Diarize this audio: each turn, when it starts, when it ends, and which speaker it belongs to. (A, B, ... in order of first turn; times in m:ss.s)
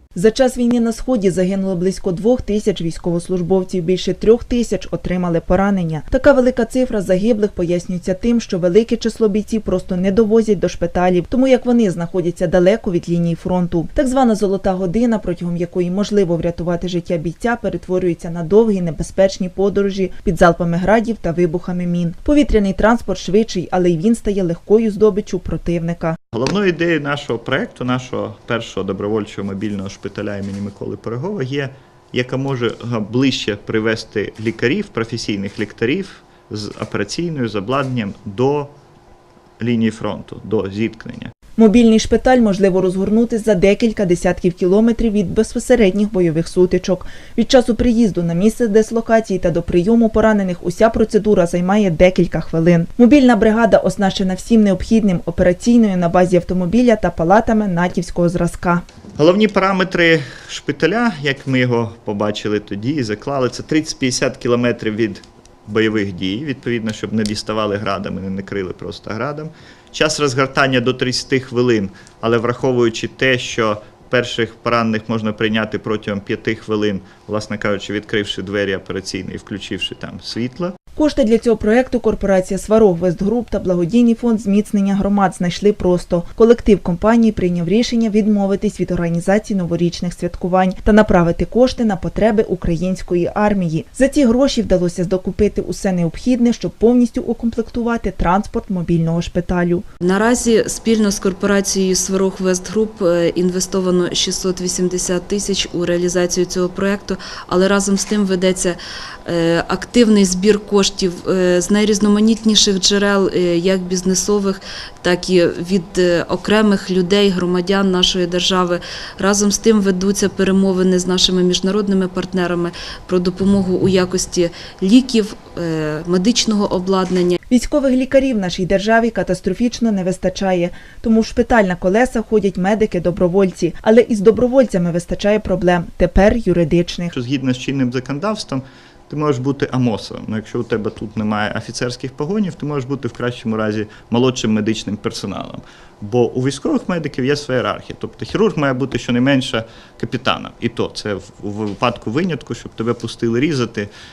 0:00.2-0:26.2 A
0:26.3-0:38.7 B
0:39.6-0:41.3 B
0:41.6-0:58.8 A
0:59.2-1:20.8 B
1:21.0-1:39.8 A
1:40.0-2:07.4 C
2:07.5-2:17.1 A
2:17.1-2:33.9 B